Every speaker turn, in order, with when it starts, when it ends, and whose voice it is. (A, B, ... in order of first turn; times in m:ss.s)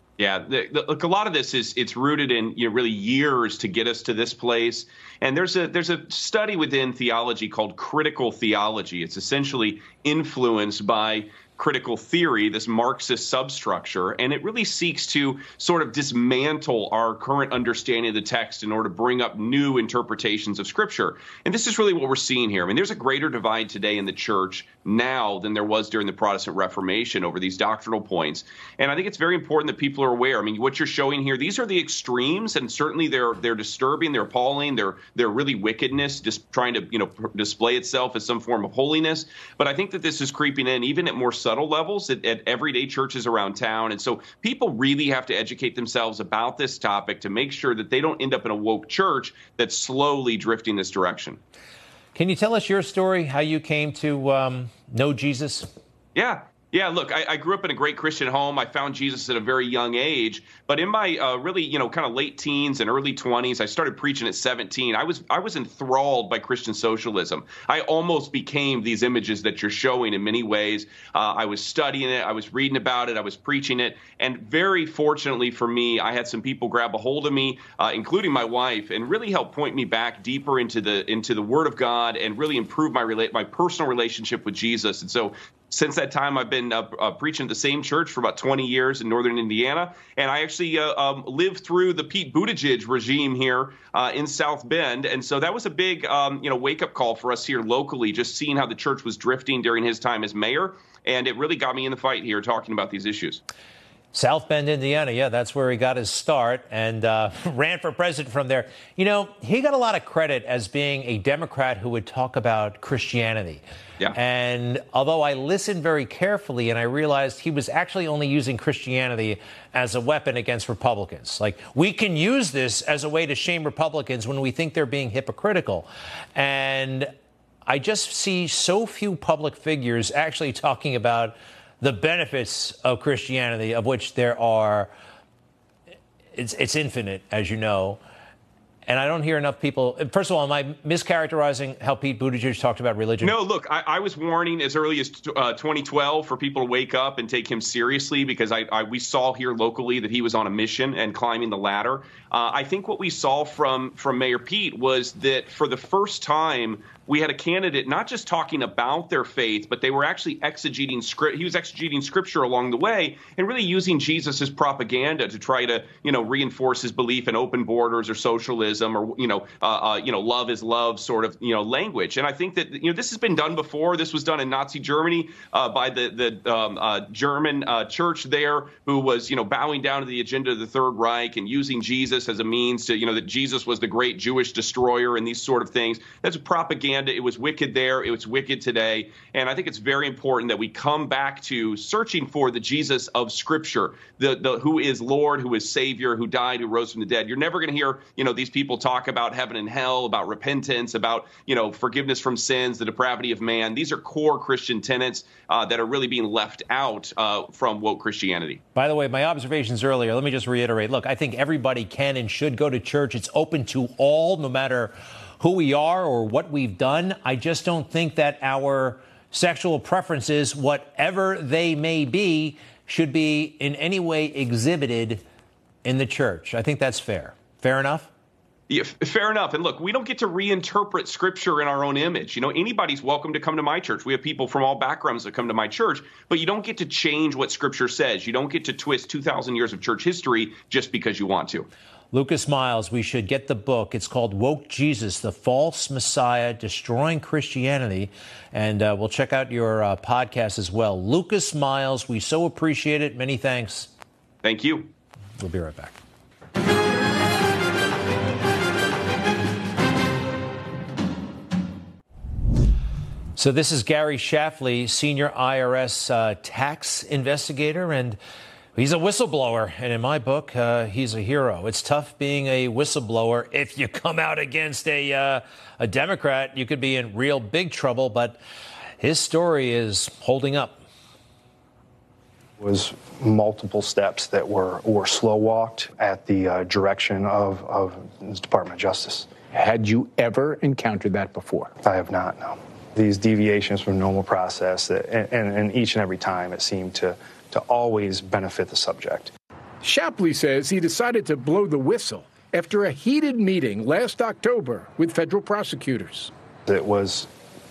0:00.2-0:51.4 A
0:52.2-0:55.7 B
0:56.2-1:43.4 A
1:44.1-1:53.6 B
1:54.1-2:07.1 B
2:07.7-2:14.9 B
2:16.4-2:18.0 B
2:18.9-2:23.4 B
2:23.2-3:28.6 A
3:28.8-3:45.2 B
3:45.8-3:48.1 B
3:48.7-4:01.7 A
4:02.1-4:13.9 B
4:14.4-4:14.9 A
4:15.4-4:16.0 B
4:23.4-4:28.2 B
4:28.8-4:38.4 B
4:39.0-4:40.8 B
4:42.6-4:49.4 C
4:49.5-4:51.8 D
4:51.8-4:59.3 C
4:59.8-5:06.3 D
5:06.7-5:07.3 C